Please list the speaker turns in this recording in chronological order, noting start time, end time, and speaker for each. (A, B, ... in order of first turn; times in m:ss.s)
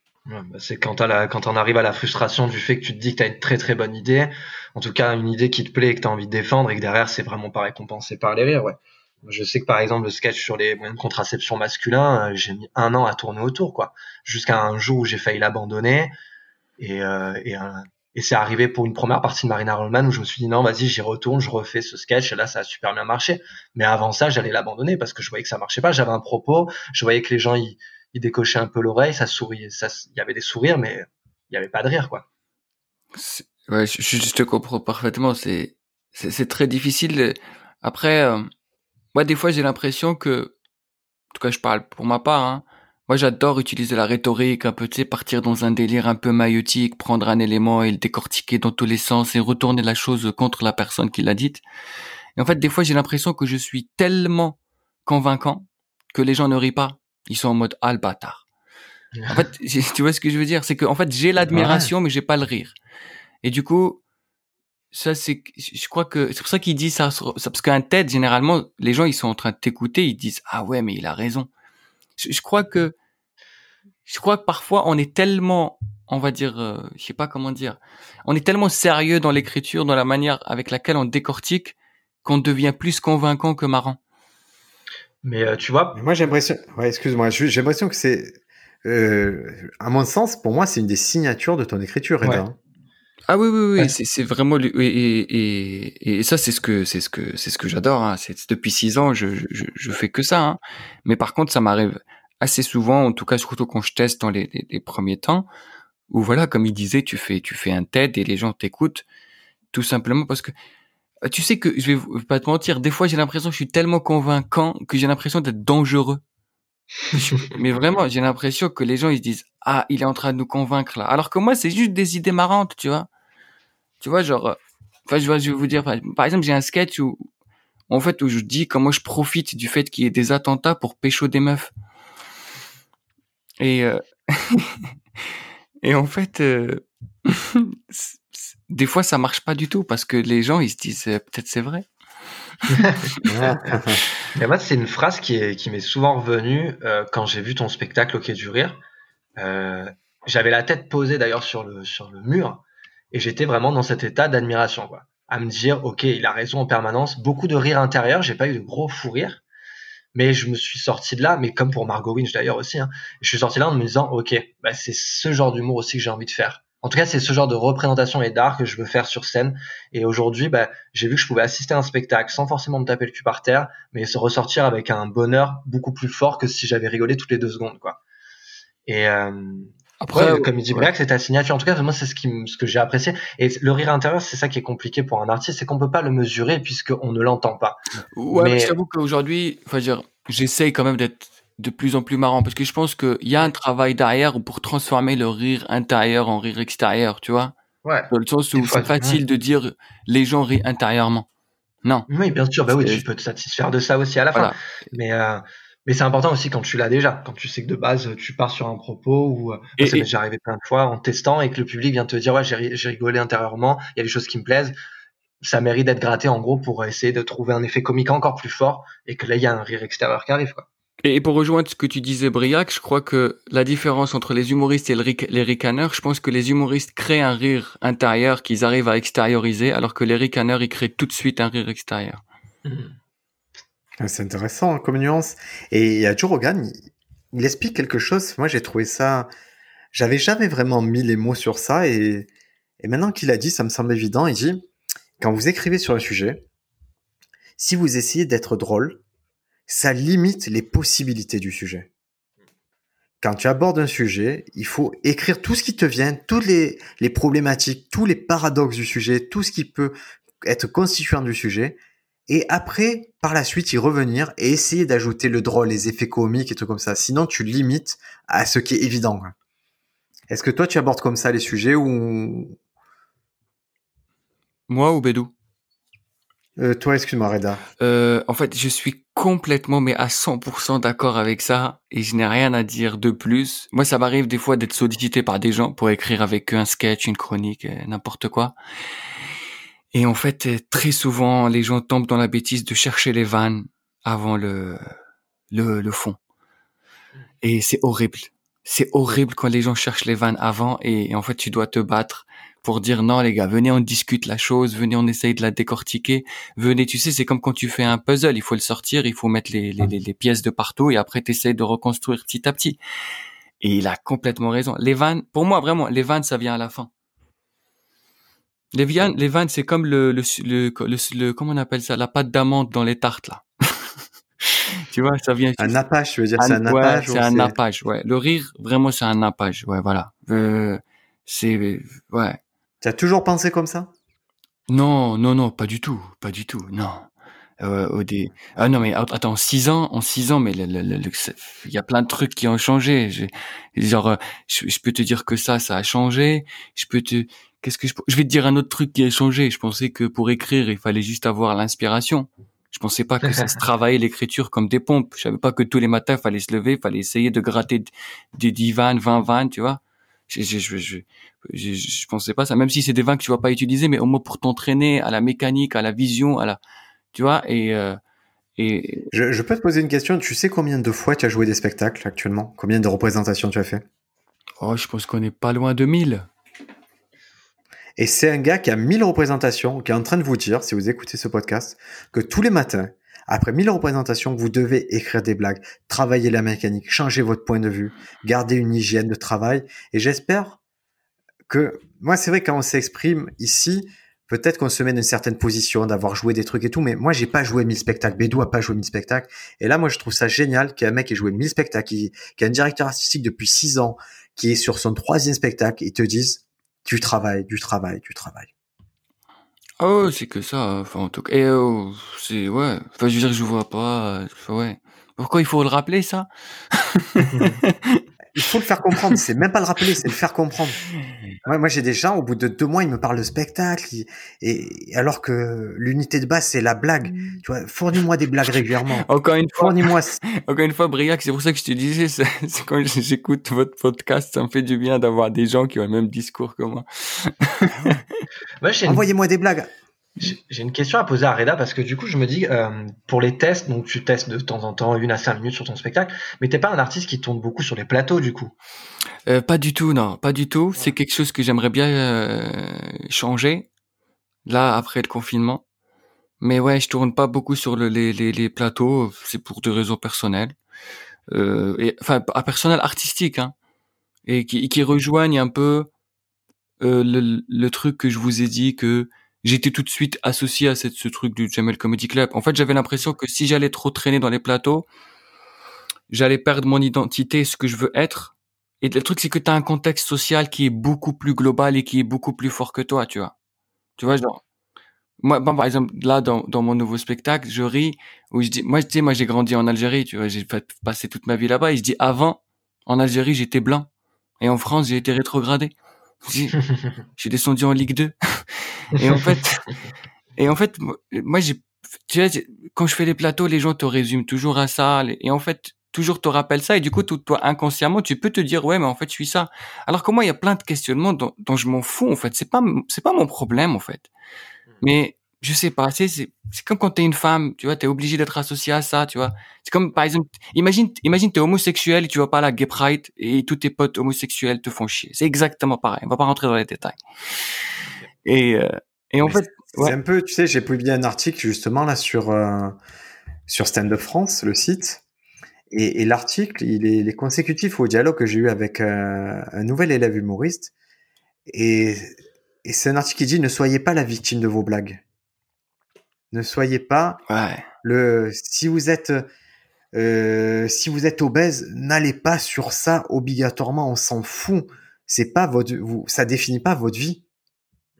0:00.3-0:16.1 A
0:16.8-0:32.2 A
0:33.1-0:38.5 B
0:39.1-0:40.5 B
0:41.3-0:51.6 B
0:52.4-0:58.4 B
0:59.1-0:59.4 A
0:59.3-1:02.8 B
1:01.5-1:01.9 C
1:03.4-1:04.0 B
1:04.9-1:11.5 B
1:12.2-1:12.9 B
1:14.1-1:24.0 B
1:25.2-1:26.0 A
1:25.9-1:32.6 C
1:33.3-1:45.5 B
1:46.1-1:49.0 B
1:49.7-1:50.5 B
1:51.2-1:56.2 B
1:57.1-2:03.1 B
2:04.0-2:07.2 B
2:07.9-2:11.7 B
2:13.6-2:14.9 B
2:15.8-2:21.8 B
2:22.6-2:23.0 B
2:22.7-2:23.0 A
2:23.2-2:24.0 C
2:24.3-2:28.8 A
2:29.4-2:39.4 A
2:40.1-2:58.0 A
2:58.8-3:07.8 A
3:00.0-3:00.9 B
3:08.1-3:17.5 B
3:08.3-3:08.7 A
3:17.8-3:19.2 A
3:18.1-3:21.3 B
3:22.1-3:34.8 A
3:22.7-3:23.0 B
3:29.8-3:30.1 B
3:35.4-3:40.7 A
3:41.0-3:52.2 B
3:52.6-3:52.9 A
3:54.0-3:59.3 C
3:59.9-4:02.3 C
4:02.8-4:04.7 C
4:05.2-4:06.4 C
4:07.6-4:09.0 C
4:09.7-4:11.9 C
4:13.2-4:29.3 C
4:30.3-4:32.6 C
4:34.7-4:35.3 B
4:36.6-4:37.6 C
4:37.8-4:48.5 B
4:49.9-4:54.9 B
4:55.5-4:56.2 B
4:57.4-5:12.8 B
5:13.6-5:16.9 B
5:18.7-5:25.8 B
5:25.6-5:27.5 C
5:26.4-5:32.4 B
5:32.8-5:33.9 C
5:34.7-5:37.1 B
5:37.6-6:06.6 B
6:07.1-6:08.0 B
6:08.6-6:09.1 B
6:09.1-6:13.8 C
6:14.6-6:16.3 B
6:18.0-6:30.6 C
6:31.5-6:48.5 C
6:49.8-6:58.0 B
6:58.4-7:00.8 C
7:01.4-7:10.2 C
7:09.0-7:18.0 B
7:18.6-7:19.0 A
7:18.8-7:19.7 C
7:20.2-7:28.5 A
7:29.3-7:33.7 B
7:34.4-7:35.6 B
7:36.4-7:40.6 B
7:41.3-7:43.5 B
7:44.2-7:45.9 B
7:46.8-7:54.8 B
7:56.1-8:03.3 B
8:04.0-8:04.4 B
8:05.2-8:13.9 B
8:14.4-8:16.6 B
8:17.2-8:19.7 B
8:19.0-8:19.2 A
8:20.4-8:34.1 B
8:34.8-8:47.4 B
8:48.2-8:50.0 B
8:49.2-8:52.8 C
8:53.5-8:55.0 C
8:55.7-9:00.7 C
9:01.5-9:02.1 C
9:02.6-9:05.0 C
9:06.3-9:07.2 C
9:07.3-9:07.6 B
9:07.8-9:09.2 C
9:09.9-9:17.2 C